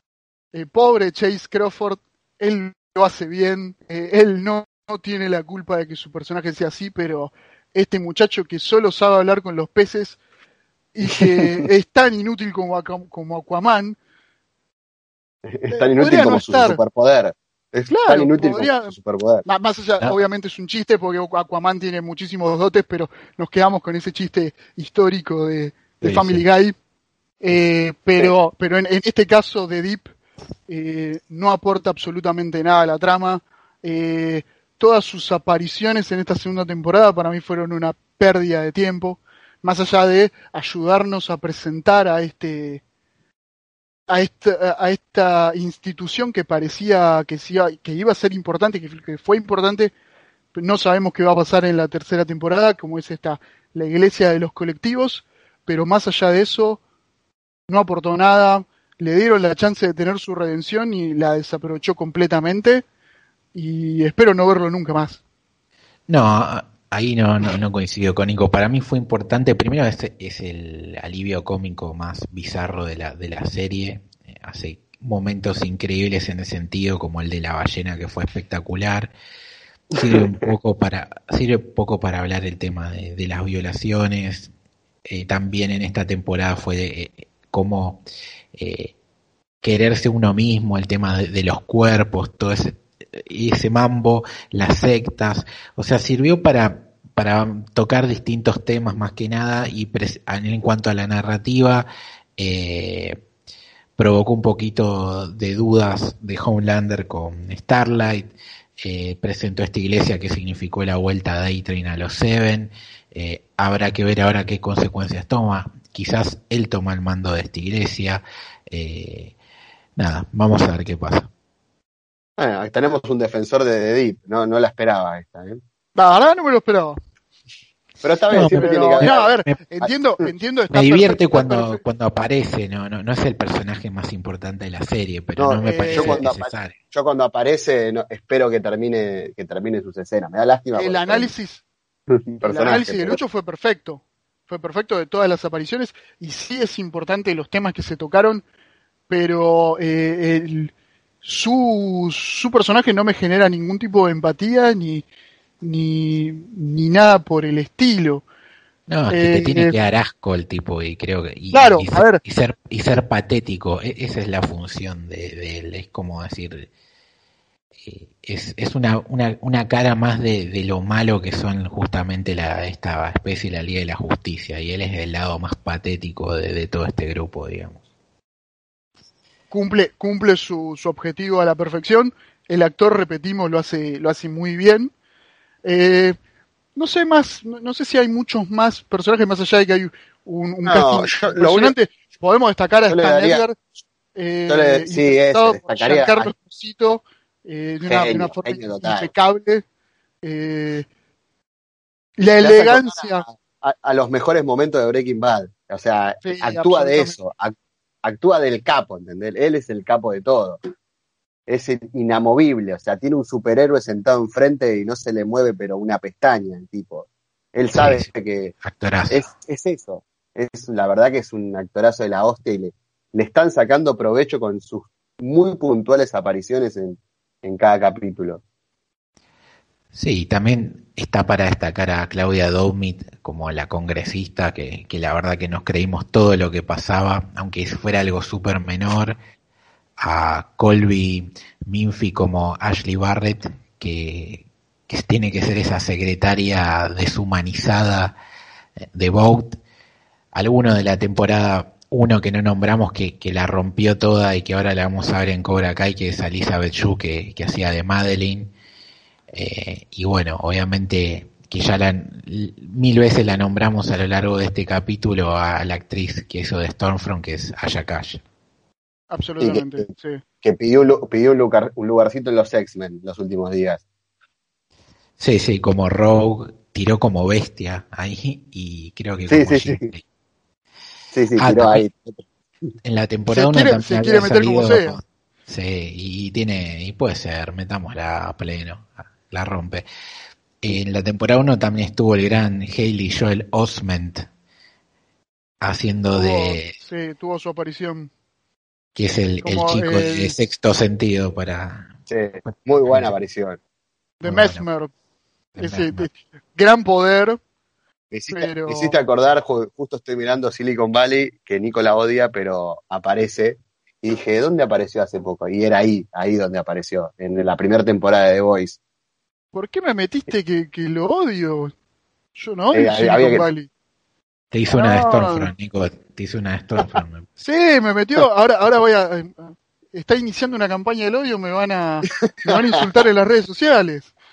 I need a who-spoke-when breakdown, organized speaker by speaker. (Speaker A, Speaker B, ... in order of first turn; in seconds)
Speaker A: 0.5-10.2, 10.9-14.0, 15.7-16.8, 17.9-18.9, 19.4-26.7, 27.4-30.1, 30.7-42.8, 44.1-49.9, 50.5-56.8, 57.7-62.8, 63.5-65.2, 126.0-127.0, 128.3-131.8, 135.6-136.2, 140.7-141.6, 142.4-148.4, 149.1-150.7, 151.2-155.0, 155.6-158.2, 159.1-159.7, 161.5-162.2, 179.5-184.9, 185.6-186.2, 186.8-193.6, 194.1-199.6, 200.2-200.9, 202.2-203.2, 206.2-207.2, 269.1-270.2, 283.3-285.0, 296.1-298.1, 299.4-300.3, 304.2-304.9, 305.6-307.4, 308.3-309.0, 319.5-321.7, 322.4-323.7, 324.7-325.5, 327.4-334.1
Speaker B: 11.2-11.6, 15.4-19.4, 26.0-26.4, 122.4-125.6, 128.0-129.3, 135.4-141.3, 142.1-143.2, 190.7-191.7, 192.9-193.4, 194.5-196.3, 197.9-199.1, 202.4-210.6, 211.5-218.5, 219.1-228.4, 269.4-269.9, 270.4-273.8, 279.3-279.9, 281.1-282.2, 302.1-303.6, 308.1-318.8, 322.7-323.4
Speaker C: 66.1-79.1, 79.9-84.5, 85.0-88.0, 88.5-88.9, 89.6-101.9, 102.4-103.2, 104.0-108.3, 108.8-119.3, 120.0-121.3, 128.3-129.6, 130.7-136.8, 158.9-166.7, 167.8-177.8, 217.7-218.1, 218.6-219.3, 229.9-239.2, 240.0-248.2, 248.9-249.6, 250.3-258.5, 259.3-268.2, 275.2-280.0, 281.4-281.8, 282.8-289.8, 290.6-294.3, 295.6-296.7, 298.9-301.9, 302.8-303.1, 304.2-304.6, 305.6-306.1, 324.5-327.3